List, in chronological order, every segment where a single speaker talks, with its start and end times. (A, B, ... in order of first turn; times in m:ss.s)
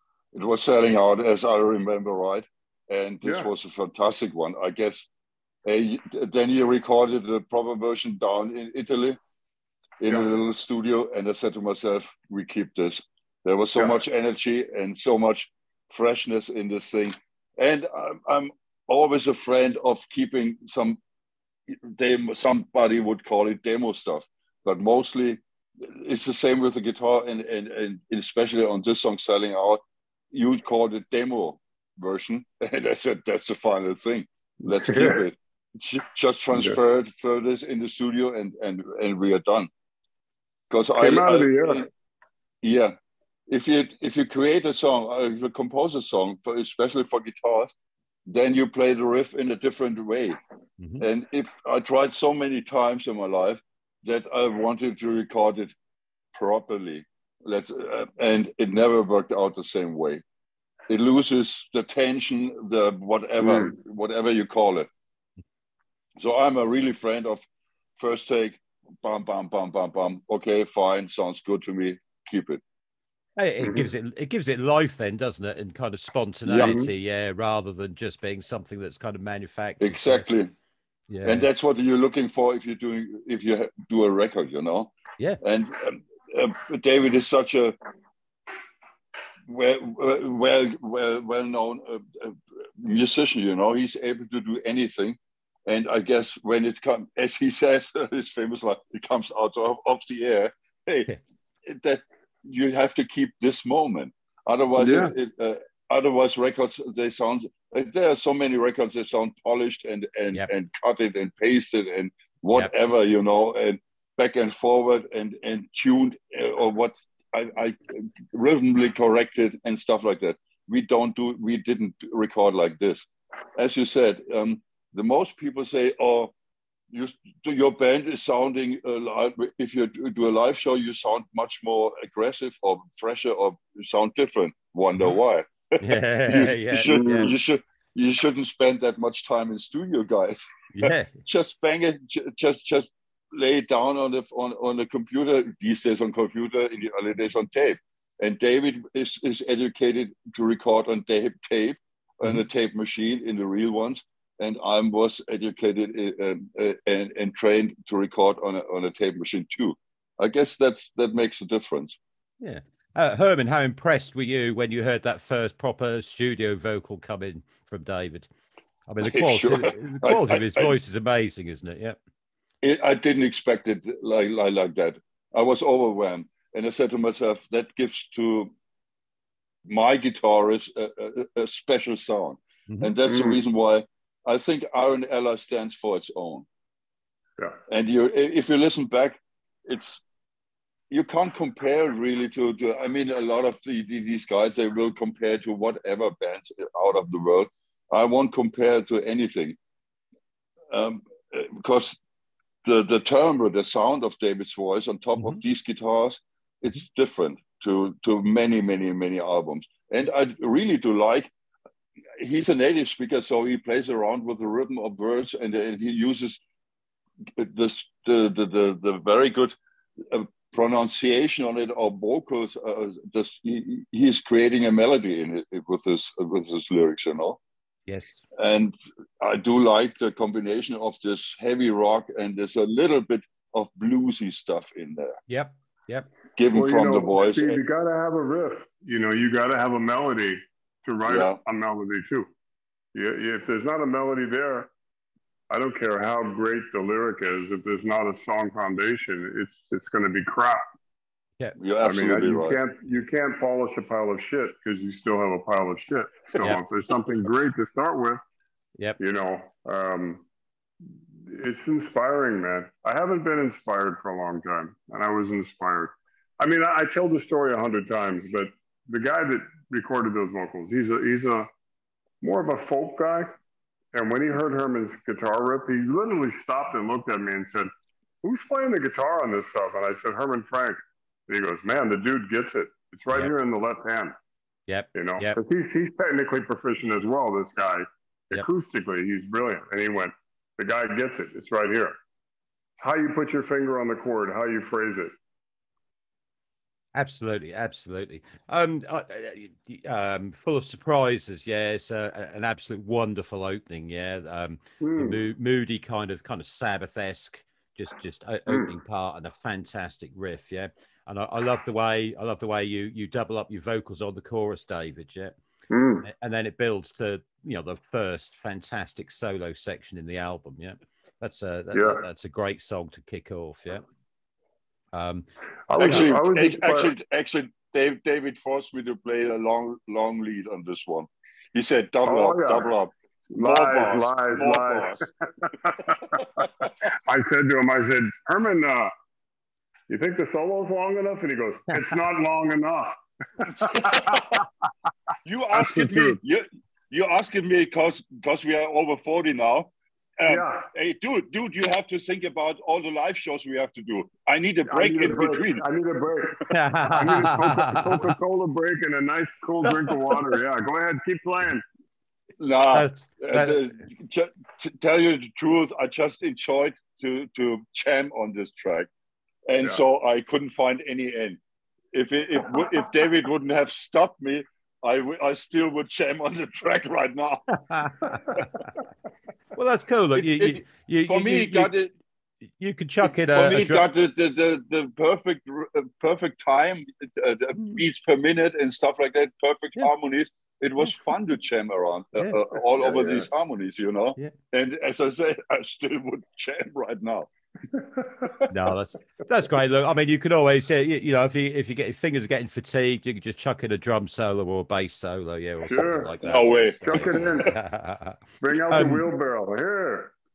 0:00.3-0:05.1 A
0:03.2-0:03.5 B
0:05.6-0:09.2 A
0:10.0-0:21.0 A
0:21.7-0:39.7 A
0:34.6-0:35.2 B
0:40.7-0:41.9 A
0:41.0-0:41.9 B
0:42.6-0:42.9 A
0:43.5-0:47.7 A
0:48.3-0:50.4 A
0:51.0-0:55.7 A
0:56.3-1:00.2 A
1:00.9-1:04.9 A
1:03.4-1:03.7 B
1:06.2-1:07.4 A
1:08.0-1:12.6 A
1:13.4-1:20.2 C
1:13.6-1:13.9 B
1:16.5-1:16.8 A
1:16.6-1:16.9 B
1:19.8-1:20.5 A
1:21.1-1:21.4 C
1:21.2-1:27.8 A
1:29.5-1:41.1 A
1:41.6-2:06.3 A
1:44.8-1:45.1 B
2:06.9-2:42.0 A
2:15.8-2:17.3 C
2:16.9-2:17.4 B
2:20.7-2:21.2 C
2:42.4-2:48.3 C
2:48.9-2:52.0 C
2:49.0-2:50.7 A
2:52.6-2:58.5 A
2:59.7-3:06.4 A
3:03.0-3:03.4 B
3:07.7-3:10.0 A
3:10.9-3:19.6 A
3:20.7-3:22.0 A
3:22.6-3:31.3 A
3:32.2-3:36.4 A
3:37.3-3:47.4 A
3:47.9-3:48.2 C
3:48.3-3:55.2 A
3:55.3-3:56.1 C
3:56.4-3:57.6 A
3:56.5-4:02.3 B
4:01.0-4:01.4 A
4:02.9-4:04.7 B
4:05.5-4:10.6 B
4:11.6-4:12.6 A
4:11.8-4:18.2 B
4:19.0-4:20.2 B
4:21.2-4:31.5 B
4:32.2-4:33.3 B
4:33.9-4:37.7 B
4:38.2-4:44.2 B
4:44.7-4:45.4 C
4:44.9-4:52.0 B
4:52.8-4:55.1 B
4:56.9-5:15.4 C
5:04.8-5:05.2 B
5:08.5-5:08.7 B
5:15.7-5:16.1 B
5:16.0-5:23.8 C
5:21.7-5:22.0 B
5:24.9-5:25.3 C
5:25.7-5:26.9 B
5:25.8-5:35.0 A
5:32.0-5:32.7 B
5:33.3-5:38.9 B
5:36.1-5:36.7 A
5:39.9-5:44.5 B
5:43.5-5:44.4 A
5:45.2-5:55.6 A
5:45.5-5:46.2 B
5:50.3-5:50.7 B
5:54.7-6:01.6 B
5:56.5-5:58.1 C
6:02.4-6:08.9 A
6:02.7-6:03.6 C
6:09.5-6:11.4 A
6:11.9-6:17.5 A
6:17.7-6:18.5 C
6:19.6-6:21.7 C
6:20.2-6:21.9 A
6:22.6-6:23.8 C
6:23.3-6:37.3 A
6:32.8-6:33.2 B
6:37.7-6:38.4 B
6:38.5-6:49.1 C
6:45.6-6:46.2 B
6:46.2-6:47.5 A
6:46.8-6:47.5 B
6:48.4-6:50.1 B